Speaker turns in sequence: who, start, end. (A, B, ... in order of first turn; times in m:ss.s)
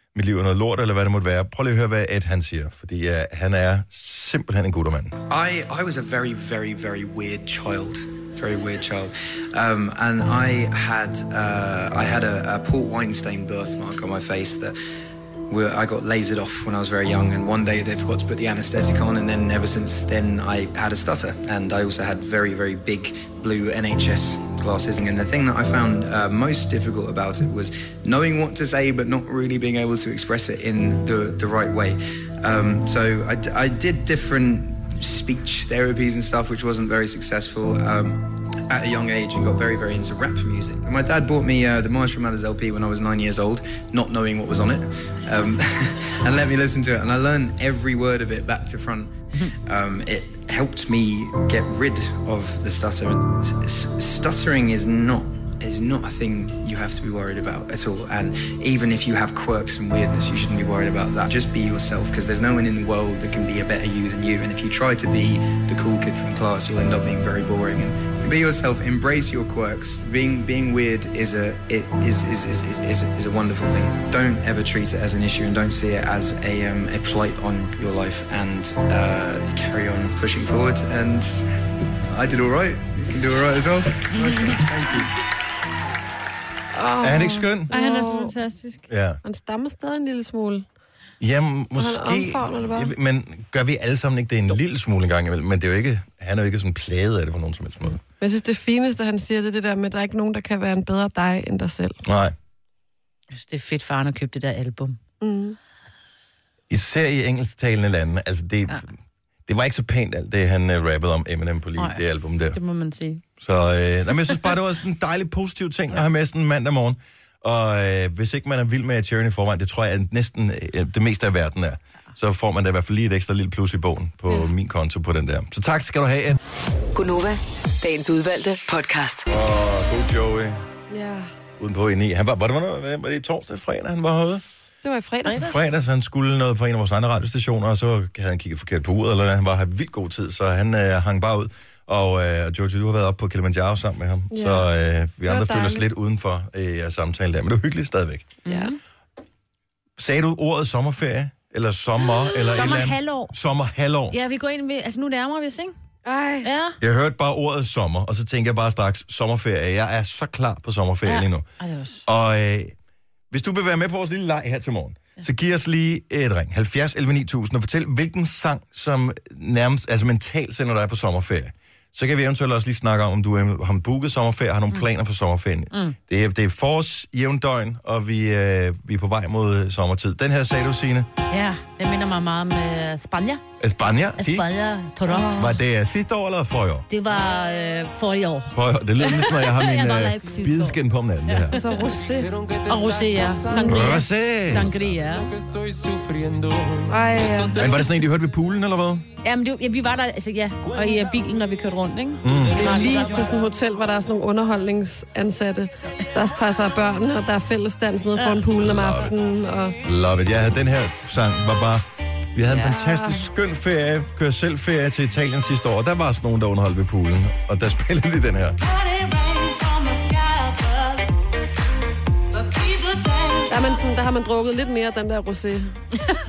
0:00.2-0:05.2 A
0:05.3-0:14.8 B
0:15.5-1:21.4 B
1:22.1-1:25.1 B
1:26.7-1:28.4 C
1:27.0-1:27.7 A
1:27.7-1:28.8 D
1:28.9-1:29.2 A
1:29.2-1:30.6 C
1:31.2-1:38.0 A
1:31.8-1:32.9 C
1:38.2-1:42.0 C
1:42.0-1:42.3 A
1:43.3-1:45.0 D
1:45.2-1:45.6 C
1:46.7-1:49.0 A
1:49.5-1:52.6 A
1:52.5-1:53.2 D
1:53.4-2:06.4 A
2:07.0-2:09.2 E
2:09.3-2:10.6 A
2:10.9-2:11.3 C
2:11.6-2:14.4 A
2:14.8-2:15.6 C
2:15.2-2:15.6 D
2:15.3-2:28.4 A
2:24.3-2:24.7 C
2:25.3-2:25.9 C
2:28.5-2:28.7 C
2:28.5-2:28.8 D
2:30.0-2:34.2 A
2:32.3-2:33.3 D
2:34.1-2:35.7 D
2:36.0-2:36.5 C
2:36.4-2:36.8 D
2:36.8-2:41.5 A
2:41.1-2:42.0 D
2:42.1-2:42.7 A
2:43.3-3:01.1 A
3:01.3-3:03.4 D
3:03.6-3:04.5 A
3:04.2-3:05.6 D
3:05.1-3:05.5 C
3:05.4-3:06.9 A
3:06.9-3:08.5 D
3:08.5-3:11.6 A
3:09.2-3:10.8 D
3:11.3-3:11.7 D
3:11.5-3:12.3 C
3:12.7-3:15.3 D
3:13.5-3:14.0 C
3:13.6-3:14.7 A
3:16.9-3:17.7 C
3:17.6-3:19.0 A
3:19.2-3:23.4 D
3:22.2-3:22.7 A
3:22.6-3:29.8 C
3:28.2-3:28.4 D
3:28.6-3:29.1 A
3:29.8-3:31.8 A
3:32.4-3:38.6 A
3:32.5-3:33.2 C
3:43.5-3:45.8 C